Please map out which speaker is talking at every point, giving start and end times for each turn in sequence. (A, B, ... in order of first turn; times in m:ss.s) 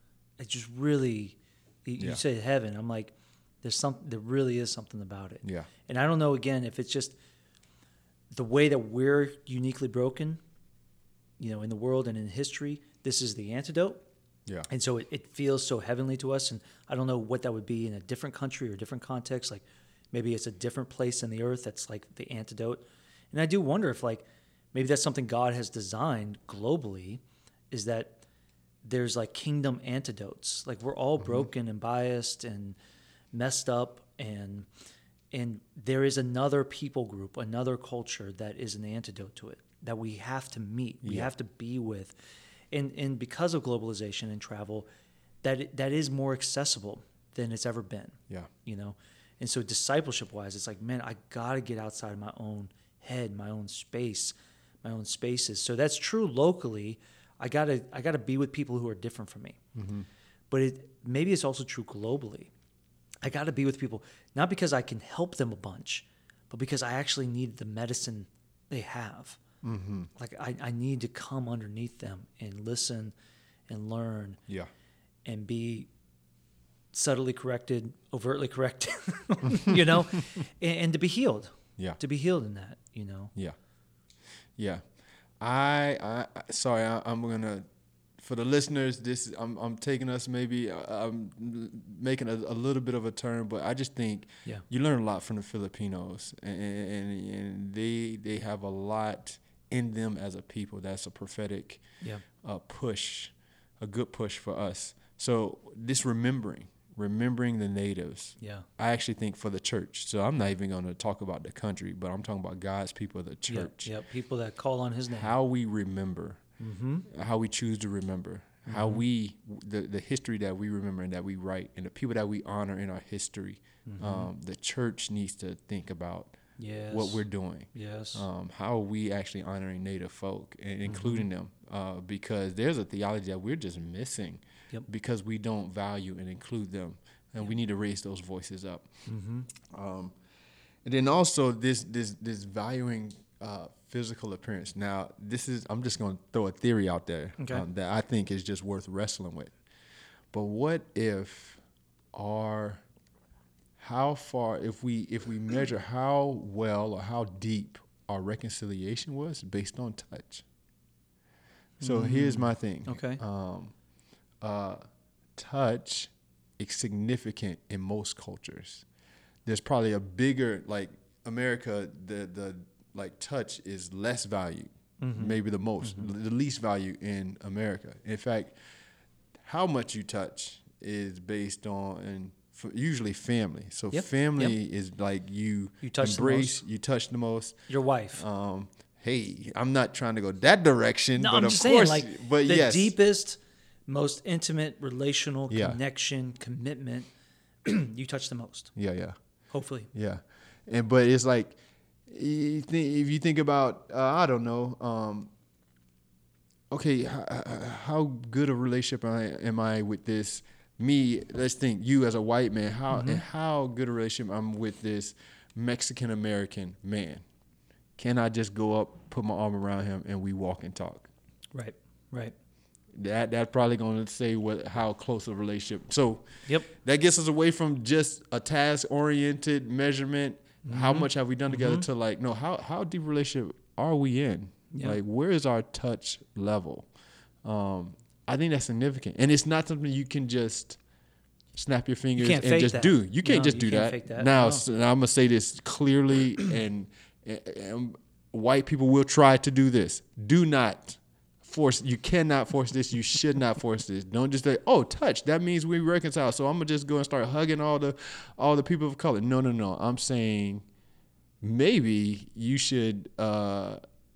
0:00.4-0:07.2 A
0:02.0-0:02.2 B
0:05.4-0:05.7 B
0:08.3-0:10.4 A
0:11.4-0:14.0 A
0:14.7-0:28.2 A
0:28.8-0:32.8 A
0:31.2-0:31.5 B
0:33.3-0:34.7 A
0:35.3-0:42.2 A
0:41.0-0:41.3 B
0:42.7-0:44.9 A
0:45.4-0:59.6 A
0:59.8-1:00.1 B
1:00.5-1:02.5 A
1:03.2-1:09.4 A
1:09.6-1:10.1 B
1:10.2-1:13.1 A
1:13.7-1:14.4 A
1:15.2-1:15.9 A
1:16.9-1:23.3 A
1:19.4-1:20.2 B
1:24.6-1:24.8 B
1:25.4-1:27.6 B
1:28.2-1:41.8 B
1:42.4-1:53.9 B
1:48.4-1:48.7 A
1:53.5-1:55.3 A
1:55.1-1:56.4 B
1:56.6-1:57.1 A
1:57.1-2:06.4 B
1:58.7-1:59.0 A
2:03.9-2:04.3 A
2:06.6-2:07.2 A
2:06.9-2:18.9 B
2:07.7-2:08.3 A
2:10.9-2:11.3 A
2:19.1-2:19.5 A
2:19.6-2:20.2 B
2:20.8-2:29.6 B
2:27.4-2:27.6 A
2:30.3-2:31.6 B
2:32.1-2:32.8 B
2:33.8-2:40.4 B
2:41.8-2:43.2 A
2:41.8-2:43.7 B
2:44.4-2:44.8 B
2:45.4-2:48.8 B
2:49.4-2:58.5 B
2:55.0-2:56.1 A
2:59.4-3:07.6 B
3:03.9-3:04.6 A
3:05.8-3:06.6 A
3:07.7-3:08.2 A
3:08.1-3:12.9 B
3:11.2-3:17.1 A
3:15.5-3:15.8 B
3:17.6-3:18.7 A
3:18.8-3:19.2 B
3:19.5-3:19.9 A
3:19.9-3:25.3 B
3:26.7-3:37.2 B
3:32.9-3:33.2 A
3:38.0-3:41.1 B
3:41.5-3:42.3 A
3:42.9-3:56.9 B
3:50.6-3:51.9 A
3:54.7-3:55.0 A
3:57.4-4:00.8 B
4:01.5-4:20.6 B
4:02.2-4:04.6 A
4:21.4-4:23.8 B